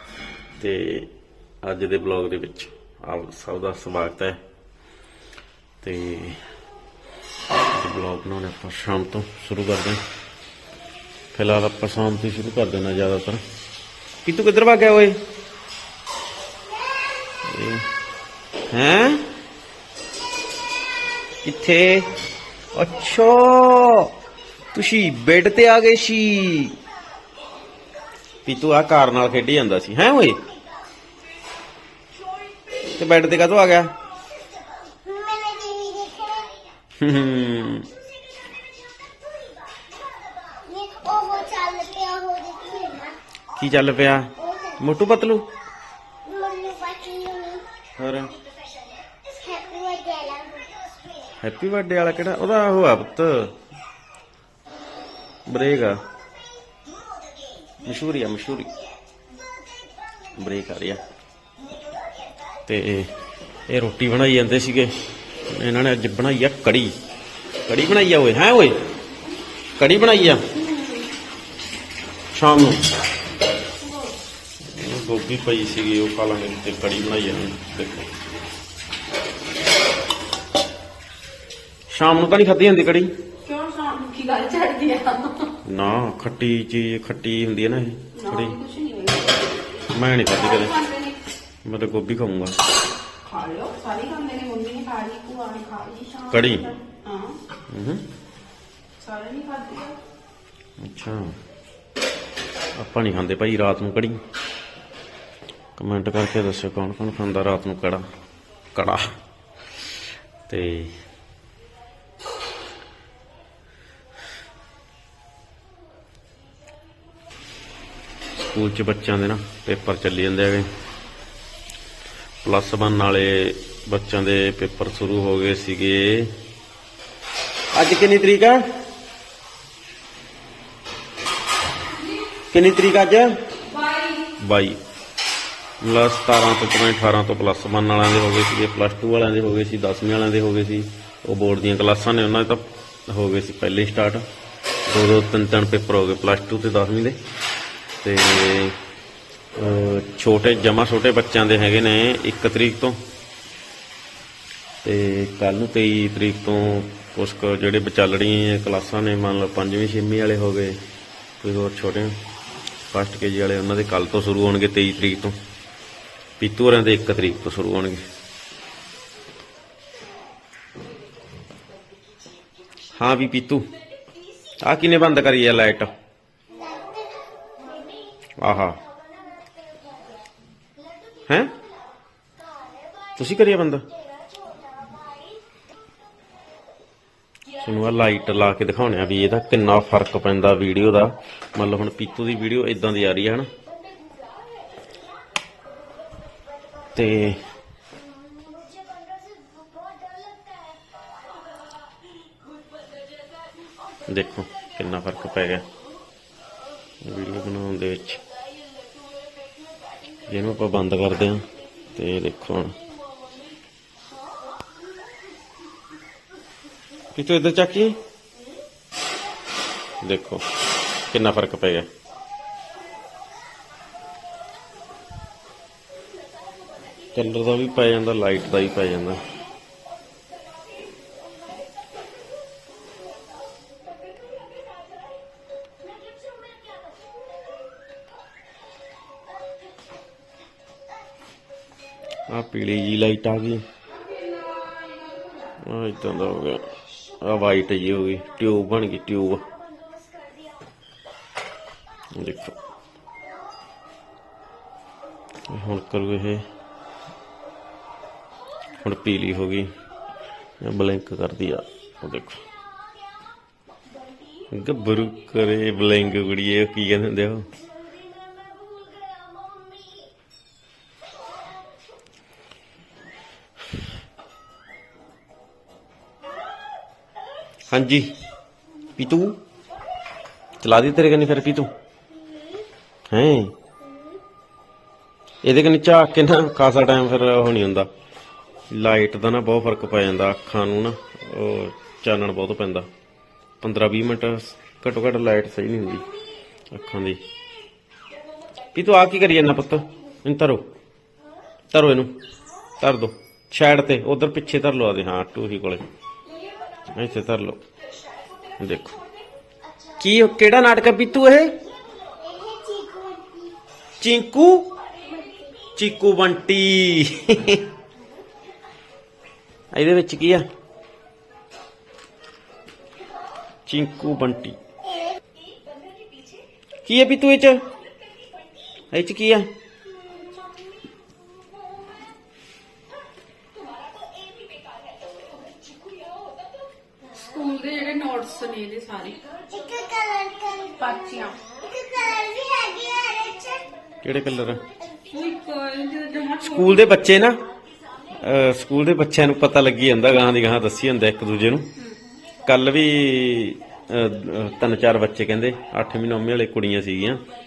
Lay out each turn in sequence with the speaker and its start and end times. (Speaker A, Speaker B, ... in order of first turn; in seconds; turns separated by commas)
Speaker A: 0.6-1.1, Speaker A: 1.6-4.4, Speaker A: 5.8-6.4, Speaker A: 7.7-10.0, Speaker A: 11.3-13.4, Speaker A: 14.2-15.2, Speaker A: 17.5-17.9, Speaker A: 18.7-19.3, Speaker A: 21.4-22.1, Speaker A: 22.8-24.1, Speaker A: 24.7-26.8, Speaker A: 28.4-30.4, Speaker A: 32.9-33.9, Speaker B: 34.8-36.8, Speaker A: 37.0-37.9, Speaker B: 39.3-39.6, Speaker B: 40.4-43.2, Speaker A: 43.5-45.5, Speaker B: 46.3-47.7, Speaker A: 48.0-48.4, Speaker B: 49.3-51.1, Speaker A: 51.4-53.6, Speaker A: 55.5-56.0, Speaker A: 57.8-58.8, Speaker A: 60.4-61.0, Speaker A: 62.7-63.1, Speaker A: 63.7-67.0, Speaker A: 67.7-68.8, Speaker A: 69.8-70.5, Speaker C: 70.5-71.1, Speaker A: 72.3-72.8, Speaker C: 73.8-74.1, Speaker A: 74.7-78.1, Speaker A: 81.9-83.1, Speaker C: 83.5-85.5, Speaker A: 85.7-88.6, Speaker C: 88.1-89.7, Speaker A: 89.9-90.7, Speaker C: 90.3-91.2, Speaker A: 91.7-92.6, Speaker C: 93.2-97.4, Speaker A: 96.3-96.7, Speaker A: 97.7-98.0, Speaker C: 99.0-100.0, Speaker A: 100.8-101.3, Speaker A: 102.8-104.2, Speaker A: 105.8-108.0, Speaker A: 108.7-109.2, Speaker A: 110.5-111.0, Speaker A: 118.4-120.7, Speaker A: 122.4-126.4, Speaker A: 127.7-128.6, Speaker A: 132.5-133.3, Speaker C: 133.8-134.3, Speaker A: 134.4-134.8, Speaker A: 135.8-144.3, Speaker A: 144.9-147.2, Speaker A: 148.0-148.8, Speaker A: 149.6-153.0, Speaker A: 154.8-160.8, Speaker A: 161.4-162.2, Speaker A: 162.9-165.4, Speaker A: 166.4-168.0, Speaker A: 173.0-173.7, Speaker A: 174.6-175.9, Speaker B: 176.6-178.1, Speaker A: 178.4-178.8, Speaker B: 179.1-180.2, Speaker A: 181.3-181.6, Speaker A: 183.2-183.9, Speaker B: 184.4-185.4, Speaker A: 187.6-193.5, Speaker A: 196.9-197.4, Speaker B: 198.4-200.7, Speaker A: 204.1-205.7, Speaker A: 207.0-208.2, Speaker A: 210.3-212.8, Speaker A: 217.1-218.0, Speaker A: 220.0-220.4, Speaker A: 221.1-221.9, Speaker A: 227.1-229.2, Speaker A: 242.3-243.6, Speaker A: 245.6-246.6, Speaker A: 247.2-249.5, Speaker A: 252.2-252.6, Speaker A: 255.5-256.5, Speaker A: 258.8-259.7, Speaker A: 260.6-262.4, Speaker A: 264.5-267.5, Speaker B: 268.2-270.1, Speaker A: 277.7-278.1, Speaker A: 279.0-279.4, Speaker A: 280.6-281.7, Speaker A: 283.1-283.6, Speaker A: 285.4-287.9, Speaker A: 288.7-292.9, Speaker A: 293.6-296.1, Speaker A: 296.7-297.2, Speaker A: 298.7-300.6, Speaker A: 301.7-302.2, Speaker A: 302.8-305.8, Speaker A: 306.9-307.6, Speaker A: 308.6-309.0, Speaker A: 310.0-311.6, Speaker B: 312.2-313.6, Speaker A: 314.0-314.7, Speaker A: 315.8-317.6, Speaker A: 319.7-320.5, Speaker A: 323.7-324.6, Speaker A: 326.9-327.6, Speaker A: 328.9-329.5, Speaker C: 337.1-339.2, Speaker B: 339.5-340.7, Speaker C: 340.7-341.4, Speaker B: 341.7-343.7, Speaker A: 344.0-344.6, Speaker C: 345.1-346.9, Speaker A: 346.4-347.4, Speaker A: 348.2-351.7, Speaker A: 352.4-357.2